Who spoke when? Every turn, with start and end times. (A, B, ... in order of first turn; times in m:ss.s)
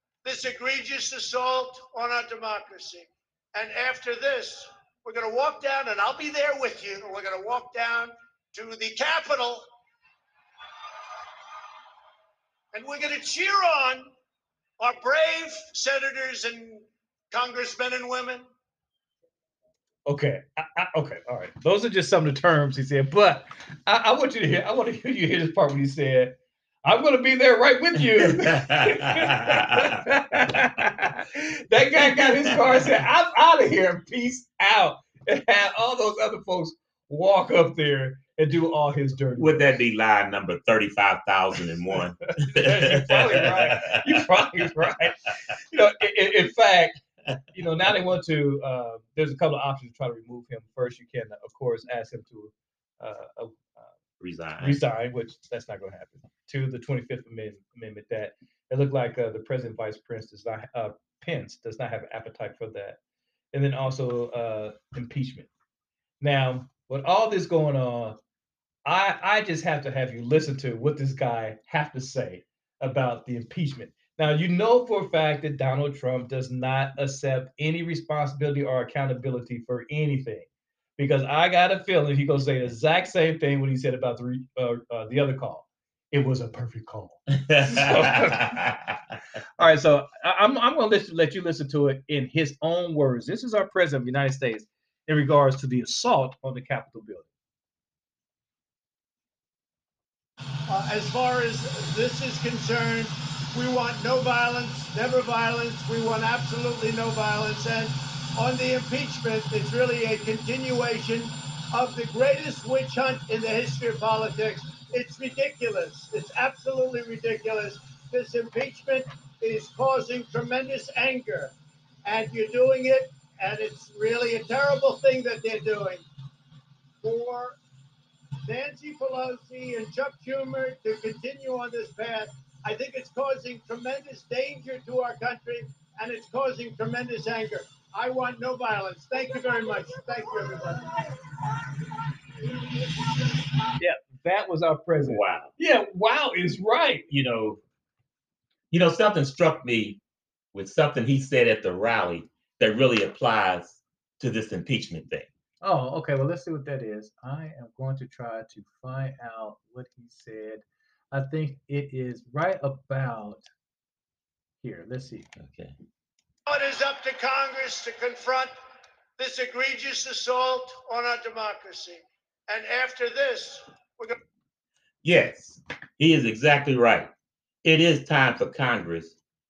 0:00.2-0:09.6 A
0:12.7-0:14.1 A
0:14.8-0:18.4 A
0:20.1-0:39.7 B
0:28.2-0:30.0 C
0:32.0-0:32.5 C
0:39.4-0:44.6 C
0:42.4-0:47.0 B
0:47.5-0:53.9 B
0:54.2-0:54.8 C
0:54.6-1:03.0 B
1:03.5-1:05.5 B
1:06.2-1:08.2 B
1:08.9-1:28.6 B
1:27.4-1:29.0 C
1:29.6-1:37.3 B
1:40.7-2:01.5 A
2:02.0-2:06.0 A
2:07.0-2:07.6 A
2:08.5-2:21.0 A
2:23.8-2:27.1 B
2:25.0-2:25.5 C
2:27.1-2:27.6 C
2:28.7-2:30.0 C
2:30.5-2:35.3 C
2:35.6-2:43.5 B
2:44.6-2:45.3 B
2:45.4-2:45.8 C
2:46.5-2:48.5 A
2:49.2-2:54.2 A
2:55.0-2:57.1 C
2:57.6-2:59.2 C